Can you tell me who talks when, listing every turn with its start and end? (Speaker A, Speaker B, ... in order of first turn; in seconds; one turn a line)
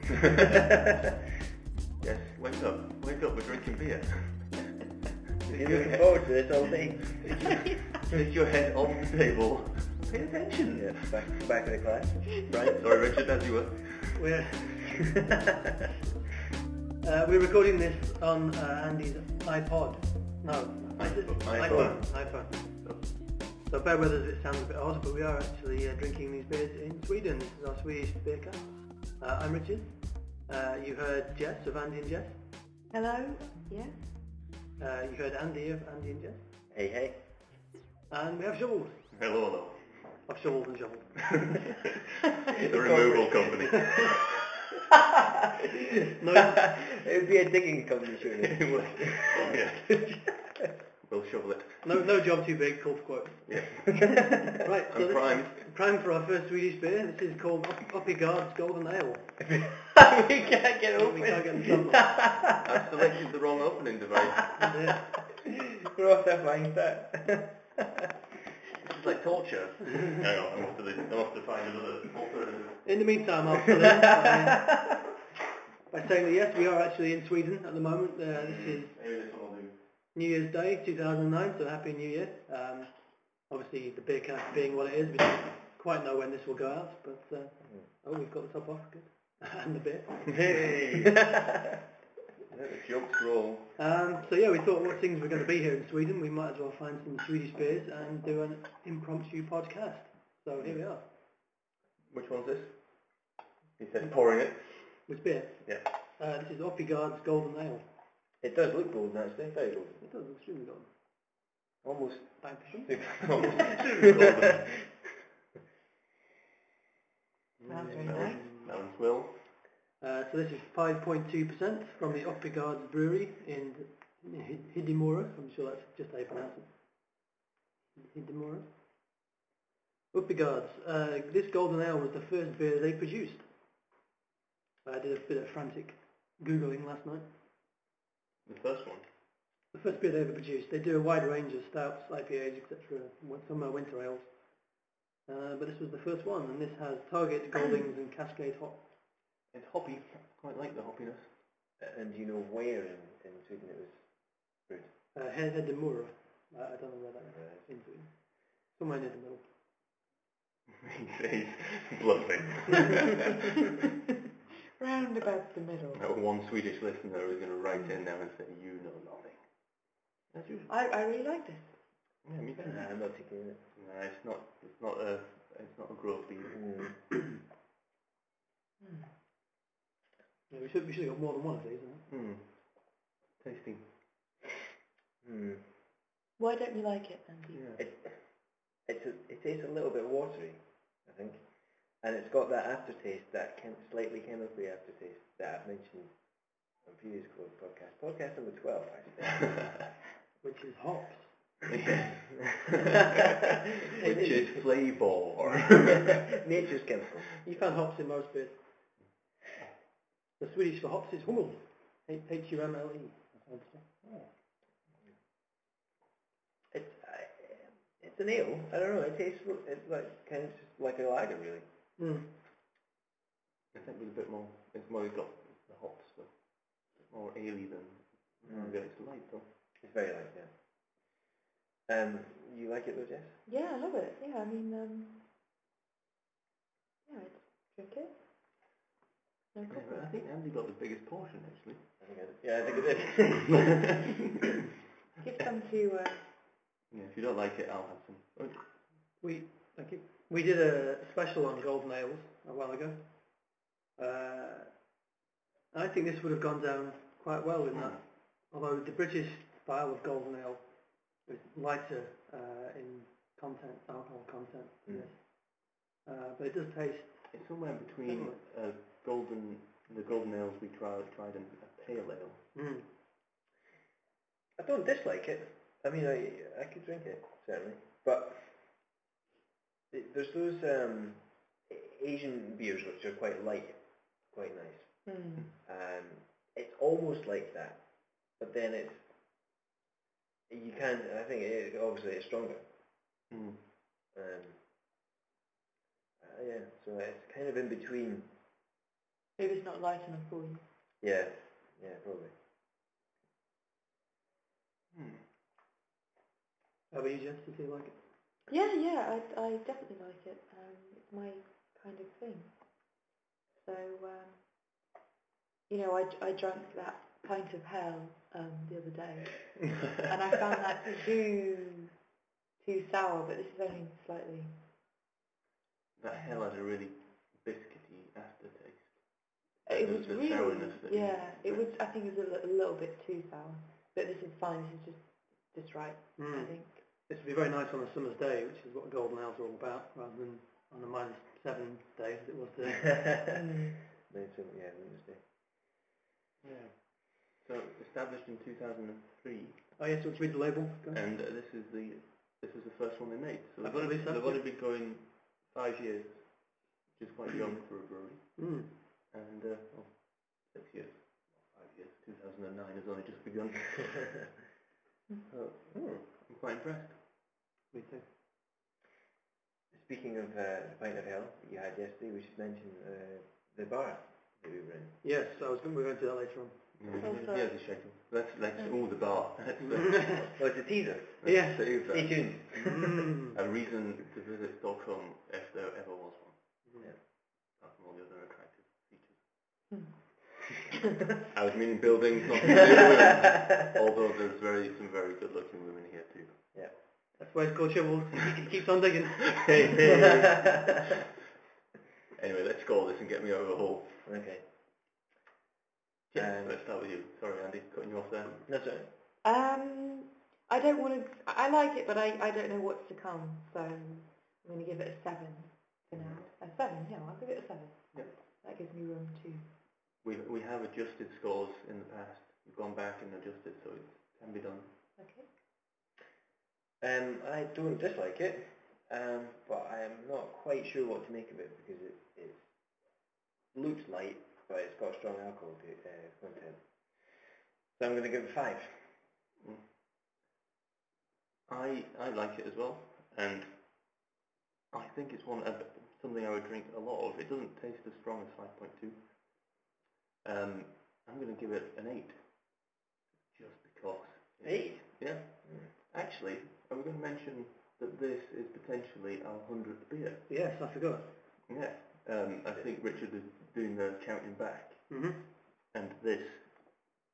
Speaker A: 2.0-4.7
Speaker B: 5.4-6.3
Speaker C: 5.5-7.7
Speaker A: 7.2-11.4
Speaker C: 10.7-12.8
Speaker A: 12.7-14.5
Speaker B: 14.2-15.1
Speaker B: 17.0-32.4
Speaker A: 21.0-23.2
Speaker C: 21.7-22.0
Speaker D: 32.9-34.0
Speaker B: 34.8-36.5
Speaker C: 36.7-37.2
Speaker B: 38.1-39.1
Speaker A: 39.1-40.2
Speaker B: 40.2-41.6
Speaker A: 41.3-41.8
Speaker A: 42.5-44.6
Speaker C: 42.5-44.0
Speaker B: 46.1-46.7
Speaker C: 46.4-50.6
Speaker A: 48.4-50.4
Speaker A: 51.0-51.9
Speaker B: 51.8-59.4
Speaker A: 53.5-54.4
Speaker C: 54.1-54.5
Speaker A: 54.9-55.7
Speaker C: 59.4-62.8
Speaker B: 61.0-62.3
Speaker A: 62.5-64.7
Speaker B: 64.6-65.1
Speaker C: 65.3-68.1
Speaker A: 68.8-72.9
Speaker B: 72.8-75.0
Speaker B: 75.9-79.0
Speaker A: 78.3-79.8
Speaker B: 80.2-90.8
Speaker A: 90.3-91.3
Speaker A: 92.5-93.8
Speaker B: 93.8-101.1
Speaker A: 102.1-105.1
Speaker B: 105.1-107.9
Speaker A: 105.6-106.0
Speaker C: 108.4-110.0
Speaker B: 110.0-110.9
Speaker C: 111.8-114.6
Speaker B: 112.4-113.2
Speaker A: 113.0-115.0
Speaker B: 117.6-118.7
Speaker D: 117.7-118.5
Speaker A: 117.9-119.6
Speaker B: 120.0-126.7
Speaker B: 128.0-128.7
Speaker B: 130.1-133.5
Speaker B: 134.8-137.3
Speaker A: 138.4-139.1
Speaker B: 139.7-144.7
Speaker B: 145.3-148.8
Speaker D: 147.6-147.8
Speaker A: 149.5-151.3
Speaker C: 151.8-154.9
Speaker B: 155.1-159.4
Speaker C: 157.3-157.7
Speaker A: 160.8-163.6
Speaker D: 164.8-166.0
Speaker A: 165.9-170.7
Speaker D: 170.7-171.7
Speaker A: 172.2-173.0
Speaker C: 172.6-173.7
Speaker A: 173.7-176.8
Speaker C: 176.5-177.0
Speaker D: 178.8-179.1
Speaker B: 180.5-182.1
Speaker A: 182.1-184.4
Speaker C: 185.2-185.7
Speaker D: 186.4-187.7
Speaker A: 187.5-187.8
Speaker C: 187.8-199.7
Speaker B: 200.4-201.4
Speaker A: 201.7-203.0
Speaker A: 203.9-206.4
Speaker B: 203.9-204.7
Speaker C: 204.1-204.4
Speaker C: 205.8-207.4
Speaker B: 207.4-208.6
Speaker B: 210.4-213.9
Speaker A: 214.0-214.3
Speaker C: 216.7-221.7
Speaker B: 222.0-222.3
Speaker A: 223.7-229.5
Speaker C: 228.5-228.8
Speaker C: 229.8-230.5
Speaker C: 231.9-233.4
Speaker D: 233.5-235.2
Speaker D: 237.1-238.1
Speaker D: 239.5-240.1
Speaker A: 239.7-241.9
Speaker C: 242.0-244.0
Speaker A: 243.5-243.8
Speaker D: 245.2-246.3
Speaker A: 246.9-248.7
Speaker B: 249.2-254.9
Speaker B: 255.7-267.4
Speaker A: 257.7-258.0
Speaker C: 264.9-265.1
Speaker A: 267.3-272.5
Speaker B: 268.0-268.4
Speaker B: 272.6-272.9
Speaker C: 274.6-278.8
Speaker C: 279.9-287.8
Speaker D: 285.1-285.5
Speaker C: 288.4-289.1
Speaker C: 290.5-292.7
Speaker A: 293.3-293.6
Speaker C: 294.1-294.6
Speaker C: 296.2-298.3
Speaker D: 299.4-300.6
Speaker C: 301.0-302.3
Speaker A: 304.9-305.2
Speaker B: 306.9-308.0
Speaker D: 308.5-312.6
Speaker D: 313.6-314.4
Speaker D: 315.7-321.9
Speaker D: 322.6-324.5
Speaker A: 326.0-331.7
Speaker D: 329.7-336.8
Speaker B: 336.2-343.0
Speaker C: 342.9-345.2
Speaker D: 343.3-343.8
Speaker A: 346.4-349.8
Speaker B: 349.8-351.0
Speaker A: 350.9-364.4
Speaker B: 353.6-354.4
Speaker B: 358.4-358.7
Speaker A: 365.3-367.0
Speaker B: 367.7-368.1
Speaker C: 369.7-375.0
Speaker B: 375.0-376.7
Speaker A: 376.8-380.4
Speaker D: 377.0-377.7
Speaker B: 379.6-380.3
Speaker C: 380.4-382.9
Speaker A: 381.2-389.4
Speaker B: 381.2-381.8
Speaker B: 383.0-383.4
Speaker B: 386.7-386.9
Speaker A: 391.2-396.5
Speaker B: 397.2-399.8
Speaker A: 399.4-400.9
Speaker C: 399.9-400.2
Speaker A: 402.1-404.0
Speaker C: 404.0-404.4
Speaker A: 406.1-408.5
Speaker C: 406.1-406.6
Speaker C: 408.5-408.9
Speaker D: 409.2-419.4
Speaker A: 415.9-416.3
Speaker A: 420.0-424.7
Speaker D: 425.0-425.3
Speaker C: 426.8-432.5
Speaker C: 433.5-437.2
Speaker C: 437.8-439.0
Speaker A: 439.4-439.7
Speaker A: 441.5-444.0
Speaker A: 444.7-449.6
Speaker A: 450.2-460.3
Speaker C: 454.4-455.7
Speaker B: 460.3-461.2
Speaker A: 461.5-466.7
Speaker B: 464.9-465.3